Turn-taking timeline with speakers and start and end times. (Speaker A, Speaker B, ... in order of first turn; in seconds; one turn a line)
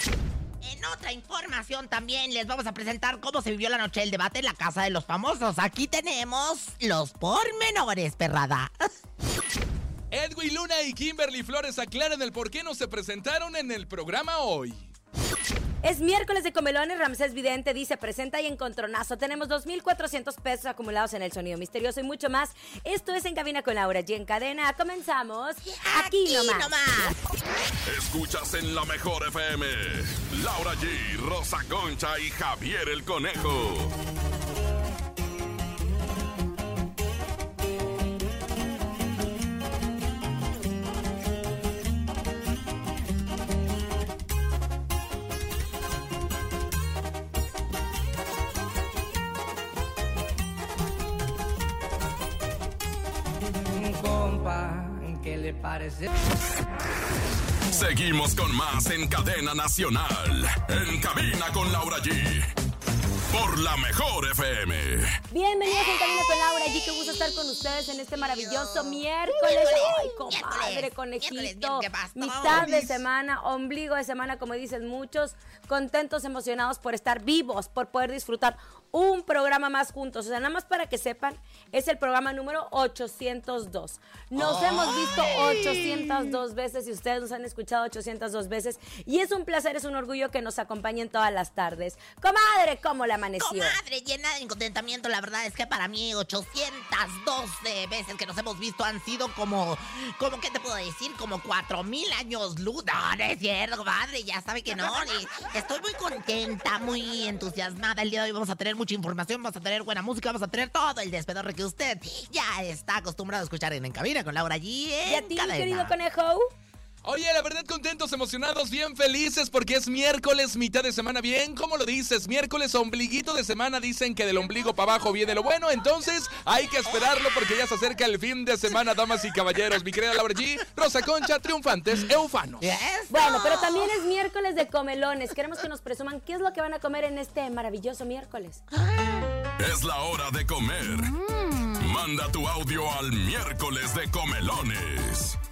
Speaker A: 0.6-9.0
Speaker B: 10.1-14.9
Speaker C: 15.8-26.7
Speaker A: 25.6-27.2
Speaker D: 27.9-33.9
Speaker E: 53.8-56.1
Speaker D: 57.7-62.5
Speaker D: 63.3-65.2
Speaker C: 65.3-93.8
Speaker A: 65.7-72.7
Speaker B: 72.5-73.0
Speaker A: 84.3-86.4
Speaker A: 93.4-115.9
Speaker C: 115.0-116.4
Speaker B: 117.0-132.7
Speaker A: 132.6-134.0
Speaker C: 133.1-138.6
Speaker A: 138.7-139.3
Speaker D: 139.6-141.1
Speaker A: 140.9-142.0
Speaker D: 141.8-145.4